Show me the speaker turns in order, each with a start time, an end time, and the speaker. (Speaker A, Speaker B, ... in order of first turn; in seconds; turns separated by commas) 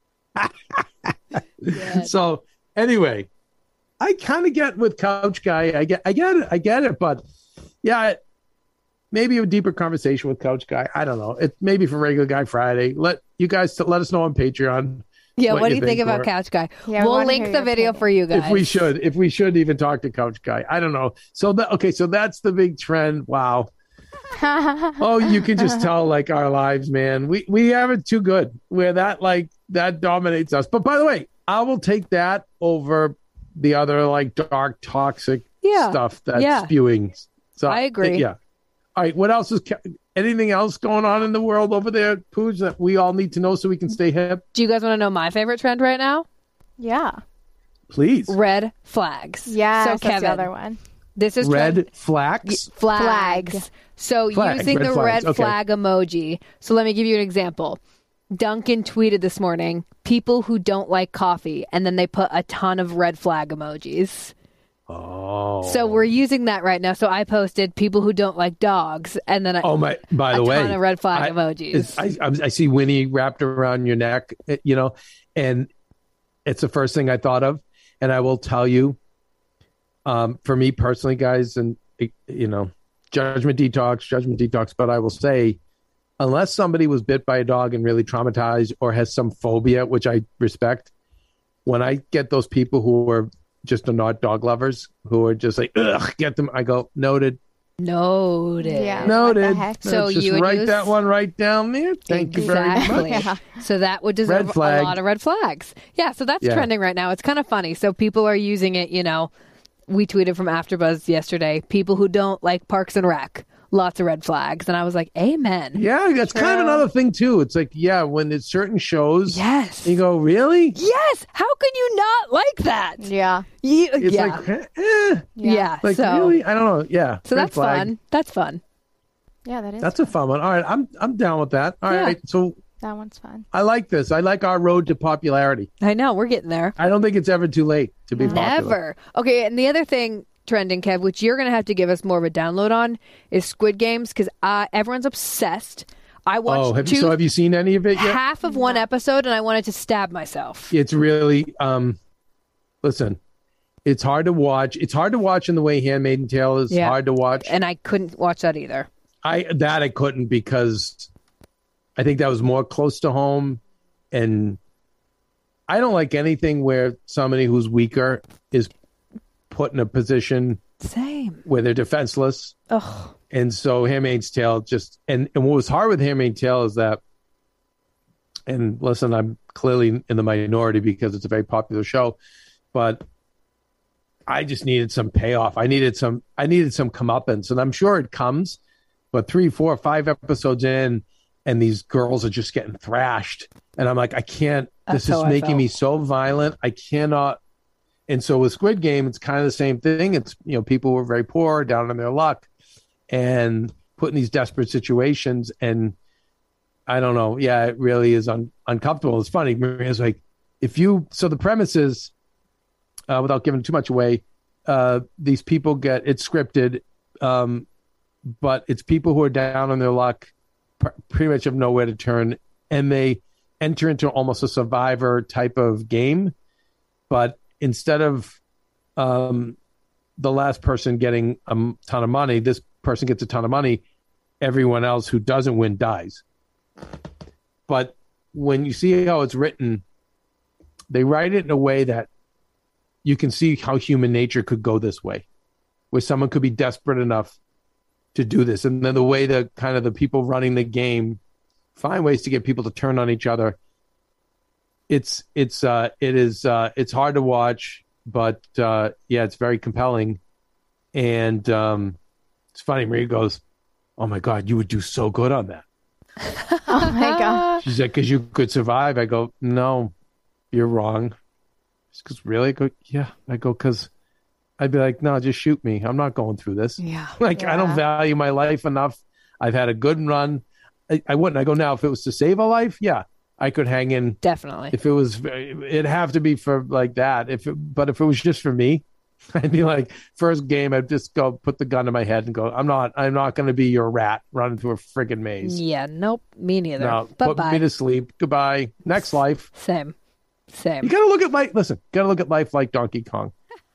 Speaker A: 0.4-3.3, Speaker B: 1.7-2.1, Speaker A: 4.0-7.2, Speaker A: 7.8-8.2, Speaker A: 9.1-16.3, Speaker B: 15.4-18.9, Speaker C: 16.9-18.1, Speaker A: 18.3-23.7, Speaker C: 24.4-25.9, Speaker A: 25.0-38.4, Speaker B: 35.6-36.7, Speaker B: 37.7-38.3, Speaker A: 39.0-44.4, Speaker B: 44.5-46.3, Speaker C: 46.8-47.2, Speaker A: 47.9-48.4, Speaker B: 48.3-50.5, Speaker C: 49.5-50.8, Speaker B: 51.2-51.9, Speaker A: 51.4-52.7, Speaker B: 52.5-57.8, Speaker C: 52.9-53.7, Speaker A: 54.3-55.6, Speaker B: 58.3-64.3, Speaker A: 64.9-66.1, Speaker B: 65.6-69.8, Speaker A: 69.6-75.7, Speaker B: 70.3-72.0, Speaker A: 76.5-79.0, Speaker A: 80.1-85.6, Speaker A: 86.2-90.9, Speaker A: 91.7-97.4, Speaker B: 97.8-99.2, Speaker C: 98.6-99.8, Speaker A: 99.0-103.3, Speaker B: 99.8-101.0, Speaker B: 102.1-109.3, Speaker C: 102.3-103.6, Speaker A: 104.3-105.0, Speaker A: 106.4-106.7, Speaker B: 109.9-116.8, Speaker A: 115.8-120.8, Speaker B: 119.3-120.0, Speaker B: 120.8-123.1, Speaker C: 123.0-123.5, Speaker B: 123.6-124.4, Speaker A: 124.0-127.9, Speaker C: 125.4-125.7, Speaker B: 125.4-126.4, Speaker B: 127.3-128.6, Speaker C: 129.5-130.1, Speaker A: 129.8-132.6, Speaker B: 131.9-132.2, Speaker C: 132.8-133.5, Speaker A: 133.5-135.7, Speaker B: 135.8-136.8, Speaker A: 136.8-138.8, Speaker C: 138.2-138.5, Speaker B: 138.2-147.2, Speaker A: 146.5-148.2, Speaker B: 147.9-150.7, Speaker C: 148.4-148.8, Speaker A: 150.7-152.0, Speaker A: 152.8-153.2, Speaker A: 153.8-157.5, Speaker B: 156.7-158.9, Speaker A: 159.2-161.1, Speaker A: 162.0-163.6, Speaker A: 164.1-164.6, Speaker A: 165.7-168.7, Speaker A: 169.5-170.6, Speaker B: 170.8-171.4, Speaker A: 171.5-172.6, Speaker B: 172.7-173.2, Speaker A: 173.3-177.0, Speaker A: 178.5-182.2, Speaker A: 182.7-183.0, Speaker A: 184.3-188.6, Speaker A: 189.1-197.4, Speaker B: 194.9-195.7, Speaker A: 198.1-202.5, Speaker A: 203.1-206.0, Speaker A: 206.9-212.1, Speaker A: 213.1-217.7, Speaker A: 218.3-226.3, Speaker A: 227.1-228.4, Speaker A: 229.0-229.6, Speaker A: 230.2-233.8, Speaker A: 234.4-236.2, Speaker A: 237.7-239.8, Speaker A: 240.9-242.1, Speaker A: 243.0-245.2, Speaker A: 245.9-247.4, Speaker A: 248.1-251.2, Speaker A: 251.8-253.6, Speaker A: 254.9-260.2, Speaker A: 260.9-262.0, Speaker A: 262.5-263.4, Speaker A: 264.0-265.6, Speaker B: 266.2-267.6, Speaker C: 266.7-267.6, Speaker A: 267.6-269.9, Speaker A: 270.5-271.2, Speaker A: 271.9-273.9, Speaker A: 274.6-284.2, Speaker B: 276.8-277.2, Speaker C: 277.3-277.8, Speaker B: 284.2-284.8, Speaker A: 284.7-295.6, Speaker B: 295.4-297.6, Speaker A: 296.8-299.5, Speaker B: 299.6-299.9, Speaker B: 300.5-300.9, Speaker A: 300.8-303.3